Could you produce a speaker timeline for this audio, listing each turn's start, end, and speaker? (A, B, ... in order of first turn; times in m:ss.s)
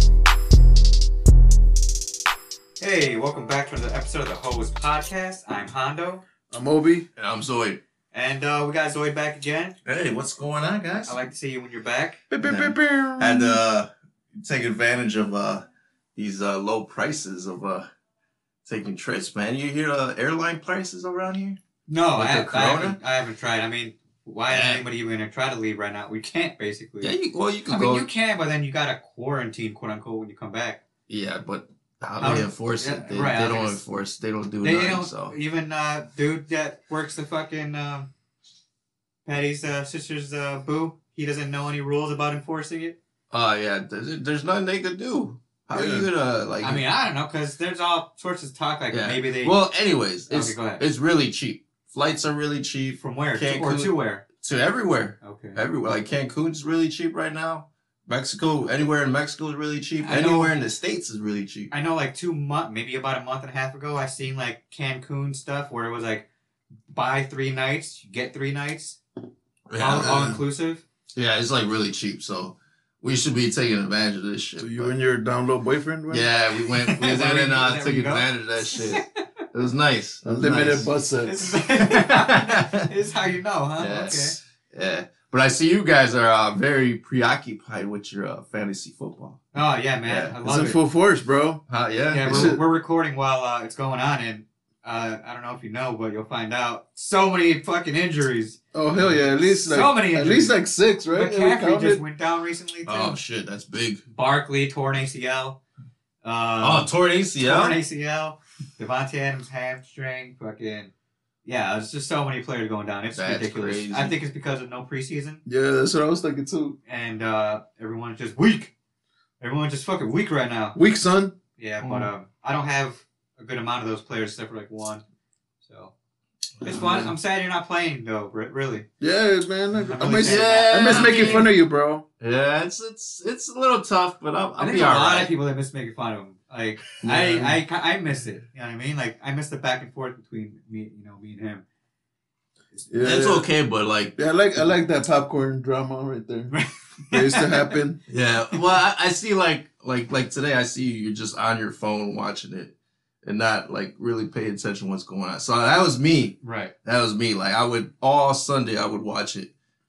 0:02.8-0:06.2 A
0:06.5-0:07.1 B
0:07.2-0:07.8 C
0:08.1-0:09.7 A
0:09.9-0:11.1 C
0:11.0-0:12.2 A
0:12.3-0:13.6 B
0:12.4-0:17.9 C
0:18.6-0:21.6 C
0:21.9-0:27.1 A
0:22.2-0:23.0 C
0:24.5-0:24.8 C
0:27.0-0:28.1 C
0:27.7-0:30.8 A
0:31.1-0:35.3 C
0:32.2-0:33.8 A
0:34.6-0:38.1 A
0:39.2-0:43.0 A
0:43.3-0:46.8 C
0:45.7-0:46.1 B
0:46.6-0:49.6 A
0:48.9-1:01.7 C
0:50.3-0:50.8 A
0:53.0-0:54.2 A
0:55.2-0:55.6 A
1:00.0-1:00.5 A
1:01.7-1:06.2 A
1:06.9-1:09.0 A
1:09.7-1:10.4 C
1:09.8-1:10.8 A
1:10.0-1:10.4 B
1:11.2-1:14.9 C
1:14.6-1:16.3 B
1:16.1-1:20.9 C
1:16.8-1:19.0 A
1:20.2-1:21.4 B
1:21.2-1:24.4 A
1:21.8-1:22.9 C
1:23.8-1:29.4 C
1:29.5-1:30.8 A
1:30.0-1:30.3 C
1:30.4-1:31.6 B
1:31.7-1:32.6 C
1:32.1-1:38.6 A
1:32.2-1:32.6 B
1:38.7-1:42.0 B
1:39.5-1:40.6 A
1:41.1-1:43.2 A
1:42.9-1:44.0 C
1:44.1-1:45.6 A
1:46.2-1:46.9 A
1:46.6-1:47.8 C
1:47.4-1:50.9 A
1:51.4-1:55.4 A
1:53.2-1:54.2 C
1:55.4-1:56.8 B
1:56.9-1:58.7 A
1:59.4-2:00.8 A
2:00.8-2:01.4 B
2:01.6-2:05.0 A
2:01.8-2:02.1 C
2:05.6-2:05.9 A
2:06.6-2:07.1 C
2:06.6-2:08.8 A
2:09.0-2:12.0 B
2:09.9-2:11.5 A
2:10.2-2:11.6 C
2:12.2-2:15.3 C
2:14.6-2:21.6 A
2:17.0-2:17.6 C
2:22.9-2:23.5 B
2:23.0-2:24.2 C
2:24.2-2:26.5 B
2:26.5-2:27.5 A
2:27.1-2:28.0 B
2:28.1-2:32.7 C
2:33.2-2:39.5 C
2:36.4-2:36.7 A